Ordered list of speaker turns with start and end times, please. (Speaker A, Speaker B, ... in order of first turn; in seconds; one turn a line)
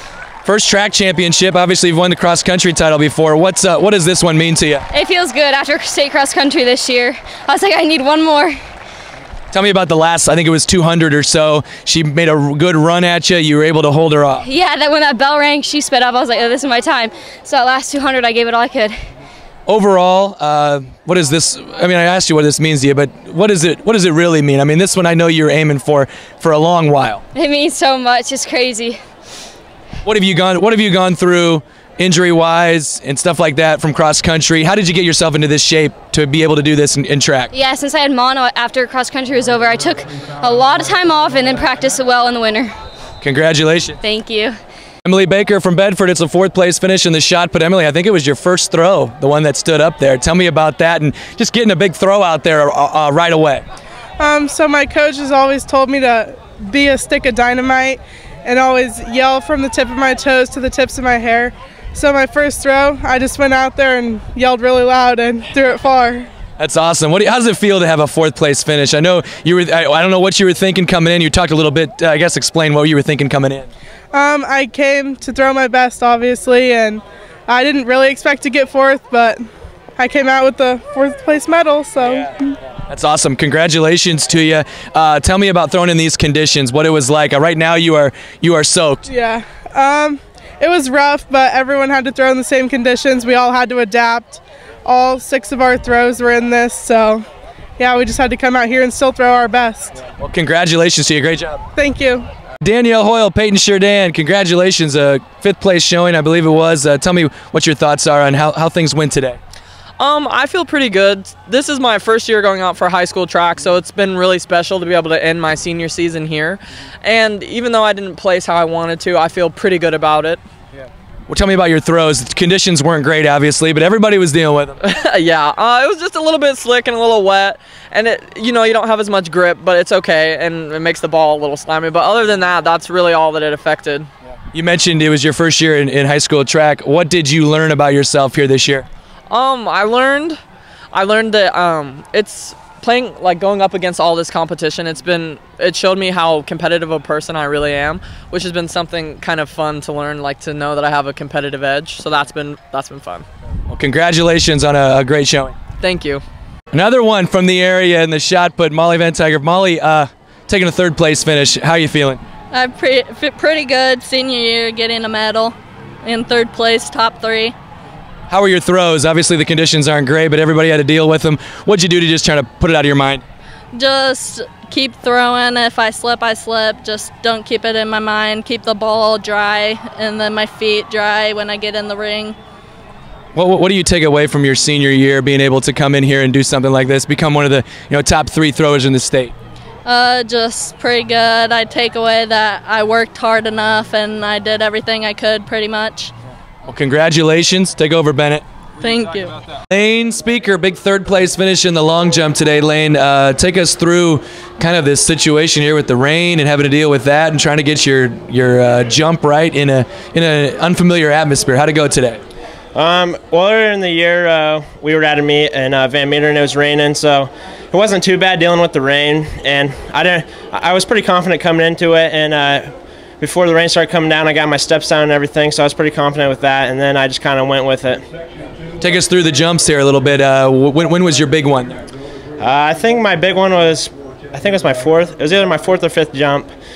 Speaker A: 0.4-4.8
Speaker B: 4.9-8.6
Speaker A: 9.5-14.4
Speaker B: 14.4-18.9
Speaker A: 19.7-27.2
Speaker B: 27.3-29.0
Speaker A: 30.0-37.5
Speaker B: 37.5-42.7
Speaker A: 43.2-44.0
Speaker B: 44.0-44.5
Speaker A: 45.0-53.6
Speaker C: 54.2-66.3
Speaker A: 66.6-73.7
Speaker C: 74.1-79.4
Speaker C: 80.0-82.5
Speaker A: 82.9-89.0
Speaker C: 89.0-97.2
Speaker C: 97.8-100.0
Speaker A: 100.2-101.6
Speaker C: 101.8-102.3
Speaker A: 102.6-109.4
Speaker D: 110.0-120.4
Speaker A: 121.3-124.8
Speaker D: 124.8-134.1
Speaker A: 134.5-138.8
Speaker D: 139.3-140.4
Speaker D: 140.9-153.2
Speaker A: 153.7-155.5
Speaker D: 155.8-156.2
Speaker A: 156.7-162.2
Speaker E: 162.5-167.5
Speaker A: 168.3-173.2
Speaker E: 173.7-182.3
Speaker A: 183.3-189.3
Speaker E: 189.8-196.1
Speaker A: 196.7-198.4
Speaker E: 198.8-199.3
Speaker A: 199.7-212.2
Speaker F: 212.7-222.7
Speaker F: 223.2-228.0
Speaker A: 228.8-231.8
Speaker F: 232.4-236.5